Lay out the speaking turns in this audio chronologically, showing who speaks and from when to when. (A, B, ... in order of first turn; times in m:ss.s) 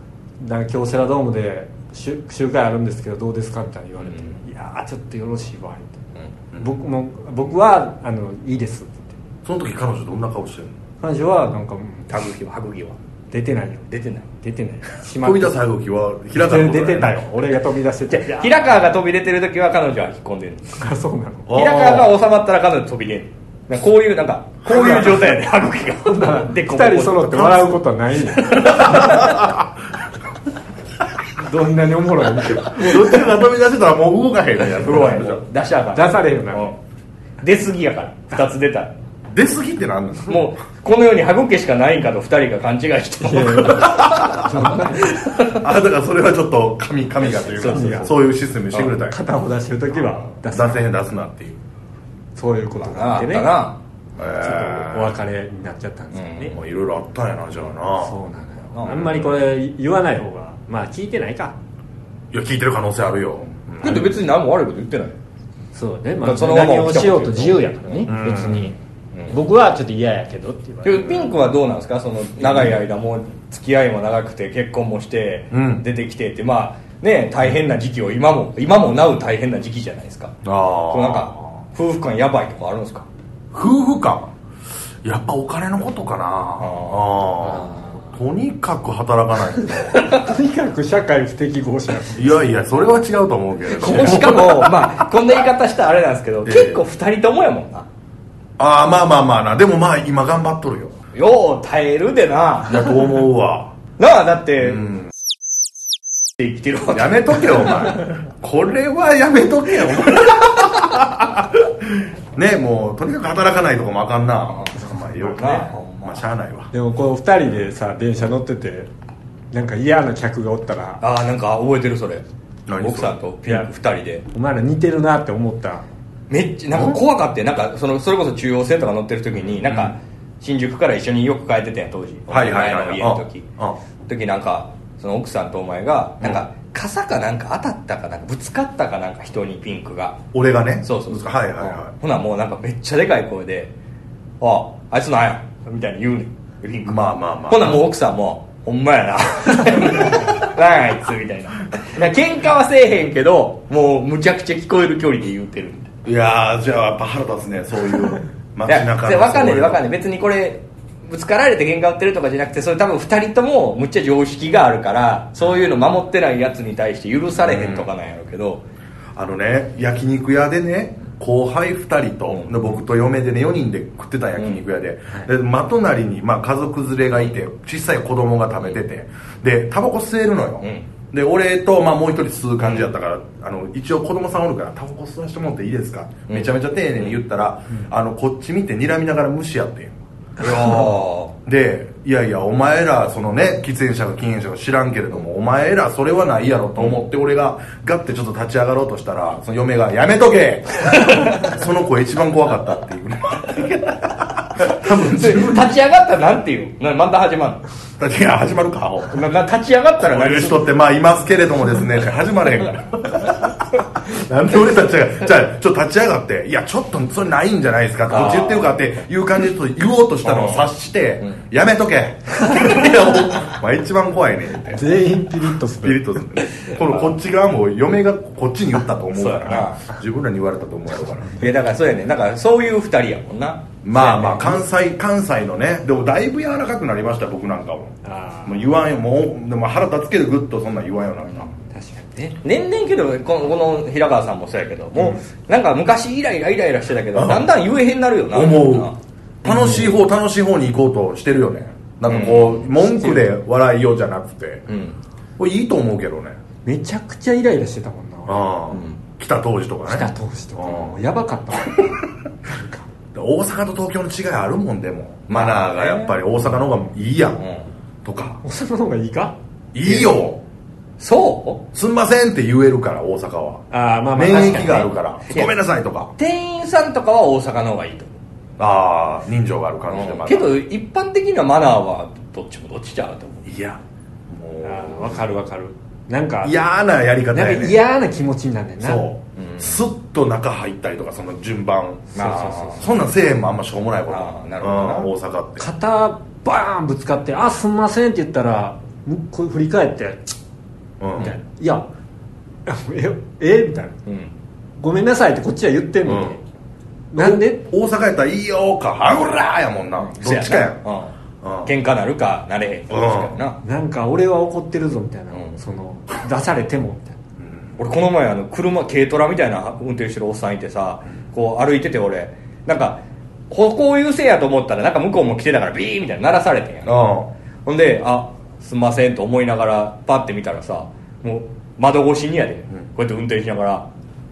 0:00.4-0:06.0 A
0:04.0-0:04.4 B
0:06.6-0:09.1 A
0:09.4-0:10.8 C
0:11.0-0:12.1 A
0:12.1-0:13.0 B
0:13.3-0:15.6 A
0:13.9-0:14.3 B
0:15.2-0:17.3 C
0:16.3-0:18.7 A
0:18.1-0:20.8 B
0:20.8-0:21.6 A
0:21.5-0:22.1 C
0:21.5-0:27.7 B
0:24.7-0:25.1 A
0:24.7-0:25.1 C
0:26.0-0:29.1 A
0:28.4-0:29.4 B
0:28.5-0:29.7 C
0:31.4-0:33.2 A
0:32.5-0:35.4 C
0:34.6-0:36.7 B
0:35.9-0:36.8 A
0:37.4-0:38.9 B
0:39.3-0:40.4 C
0:40.3-0:45.6 B
0:43.2-0:45.2 A
0:43.8-0:44.5 C
0:45.4-0:49.2 C
0:47.2-0:48.2 B
0:47.6-0:48.1 A
0:49.0-0:50.9 A
0:50.5-0:51.6 C
0:52.4-0:53.6 A
0:52.8-0:53.8 B
0:54.2-0:55.2 C
0:54.2-0:56.6 A
0:56.1-0:56.6 B
0:56.5-0:58.2 C
0:58.0-1:01.6 A
0:58.7-0:59.1 B
0:58.8-0:59.3 C
1:02.3-1:04.1 C
1:03.8-1:05.2 B
1:05.7-1:08.8 A
1:06.2-1:08.2 B
1:08.1-1:08.7 C
1:09.3-1:11.1 A
1:10.8-1:23.1 B
1:12.4-1:12.7 C
1:15.5-1:15.8 C
1:20.4-1:21.4 C
1:23.5-1:24.3 C
1:25.0-1:30.0 C
1:26.6-1:27.1 B
1:29.9-1:30.3 B
1:30.0-1:32.4 A
1:32.1-1:35.0 C
1:33.8-1:37.9 B
1:36.4-1:36.8 C
1:38.6-1:41.0 C
1:41.1-1:43.0 B
1:42.6-1:43.8 C
1:44.0-1:44.9 B
1:44.6-1:45.1 C
1:46.4-1:48.1 B
1:46.9-1:56.7 C
1:54.5-1:56.2 B
1:56.7-1:58.9 A
1:59.5-2:01.0 A
2:01.0-2:02.2 B
2:02.7-2:03.1 C
2:02.8-2:04.2 B
2:04.3-2:05.9 A
2:06.3-2:13.5 B
2:06.7-2:07.0 C
2:09.4-2:10.0 C
2:12.3-2:13.8 C
2:14.1-2:20.2 B
2:20.3-2:21.9 C
2:20.8-2:23.7 B
2:24.4-2:35.9 B
2:26.8-2:27.8 C
2:36.0-2:39.8 C
2:38.7-2:48.6 B
2:47.4-2:47.9 C
2:49.2-3:10.9 C
3:06.3-3:07.1 B
3:10.4-3:11.3 B
3:11.4-3:25.7 C
3:16.8-3:17.0 B
3:21.0-3:21.4 B
3:24.6-3:27.6 B
3:28.0-3:29.3 C
3:29.1-3:30.7 B
3:30.0-3:45.0 C
3:38.1-3:38.9 B
3:40.2-3:40.7 B
3:42.5-3:43.3 B
3:44.7-3:46.2 A
3:45.8-3:51.4 C
3:46.6-3:47.2 B
3:49.2-3:49.9 B
3:51.4-3:54.6 B
3:53.8-3:57.9 C
3:58.0-3:58.6 A
3:58.5-4:01.5 C
4:01.7-4:02.4 A
4:02.4-4:09.0 B
4:07.1-4:07.5 C
4:08.3-4:08.9 C
4:09.4-4:14.7 C
4:09.5-4:09.9 A
4:12.0-4:12.7 B
4:12.8-4:13.2 A
4:14.7-4:15.0 B
4:15.4-4:16.4 C
4:16.6-4:18.5 A
4:18.3-4:21.0 C
4:18.7-4:19.0 B
4:19.9-4:21.9 A
4:22.5-4:22.8 A
4:23.1-4:27.4 C
4:25.3-4:26.2 B
4:27.4-4:27.7 B
4:28.0-4:28.4 C
4:28.4-4:29.4 A
4:29.7-4:30.4 C
4:29.8-4:30.2 B
4:31.0-4:31.6 B
4:31.7-4:36.1 C
4:33.7-4:34.9 A
4:34.4-4:35.5 B
4:36.2-4:38.1 B
4:38.6-4:40.6 C
4:39.9-4:43.5 B
4:43.4-4:45.2 C
4:44.6-4:46.6 A
4:46.4-4:47.8 C
4:47.3-4:49.1 A
4:48.8-4:52.2 C
4:49.4-4:49.8 B
4:52.2-4:52.9 A
4:52.2-4:52.9 B
4:52.8-4:55.7 C
4:54.1-4:55.1 B
4:55.6-5:00.4 A
5:01.0-5:01.4 C
5:01.2-5:01.9 A
5:02.7-5:04.0 A
5:04.1-5:04.3 B
5:04.8-5:06.4 A
5:06.0-5:06.4 C
5:07.1-5:07.6 A
5:07.2-5:10.8 C
5:10.0-5:11.1 B
5:11.4-5:11.7 C
5:11.6-5:13.6 B
5:12.9-5:13.4 C
5:13.6-5:17.2 A
5:15.3-5:15.6 B
5:17.4-5:17.7 C
5:17.8-5:27.1 B
5:26.9-5:27.3 C
5:27.7-5:33.9 B